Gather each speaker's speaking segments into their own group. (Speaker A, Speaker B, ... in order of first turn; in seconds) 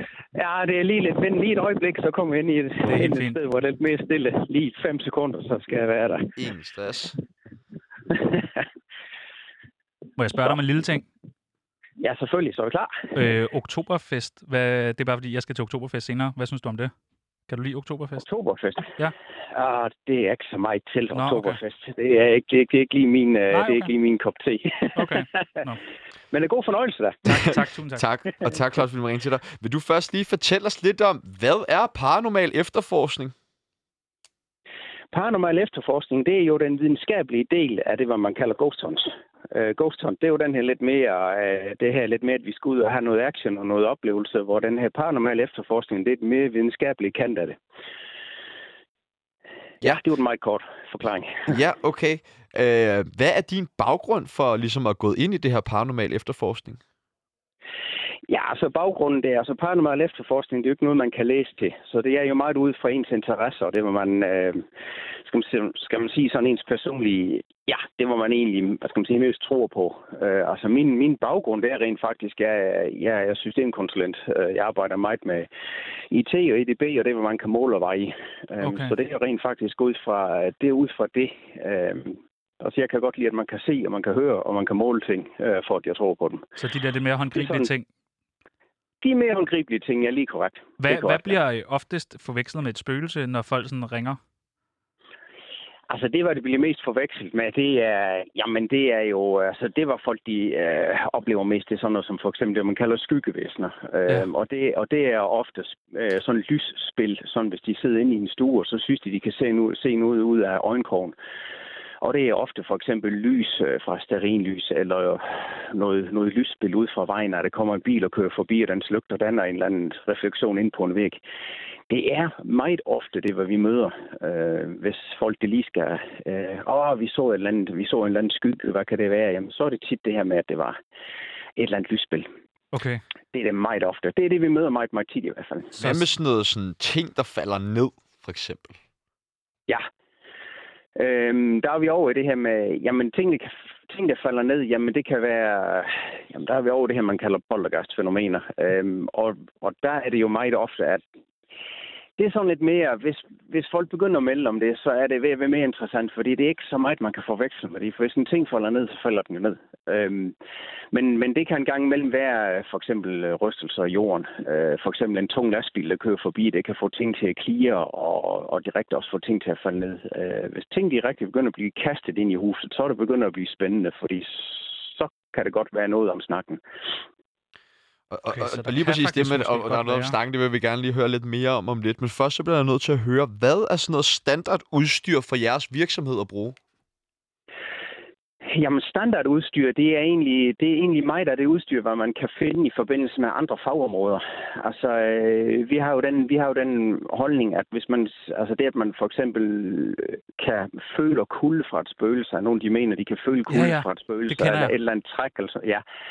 Speaker A: 0.3-6.3, 8.1-8.6, 12.0-13.1, 18.2-19.0, 19.5-25.6, 26.3-27.2, 35.1-47.6, 49.8-51.6, 58.3-64.6, 65.2-75.5, 76.1-86.5, 87.3-87.7, 89.0-91.4, 95.9-111.1, 112.0-121.2, 121.9-130.8, 131.6-132.3, 133.3-135.7, 140.9-151.0, 152.2-160.3, 160.9-176.6, 188.4-205.8
Speaker B: 2.9-3.4, 10.2-11.1, 13.1-16.9, 17.5-18.2, 21.1-21.6, 23.5-23.9, 24.9-25.8, 27.2-28.0, 78.6-78.9, 86.6-87.8, 90.8-94.2, 132.7-133.0, 135.8-136.0, 178.3-180.2, 203.5-204.7
Speaker C: 6.4-7.2, 27.3-33.3, 51.5-56.8, 135.8-138.8, 178.1-186.6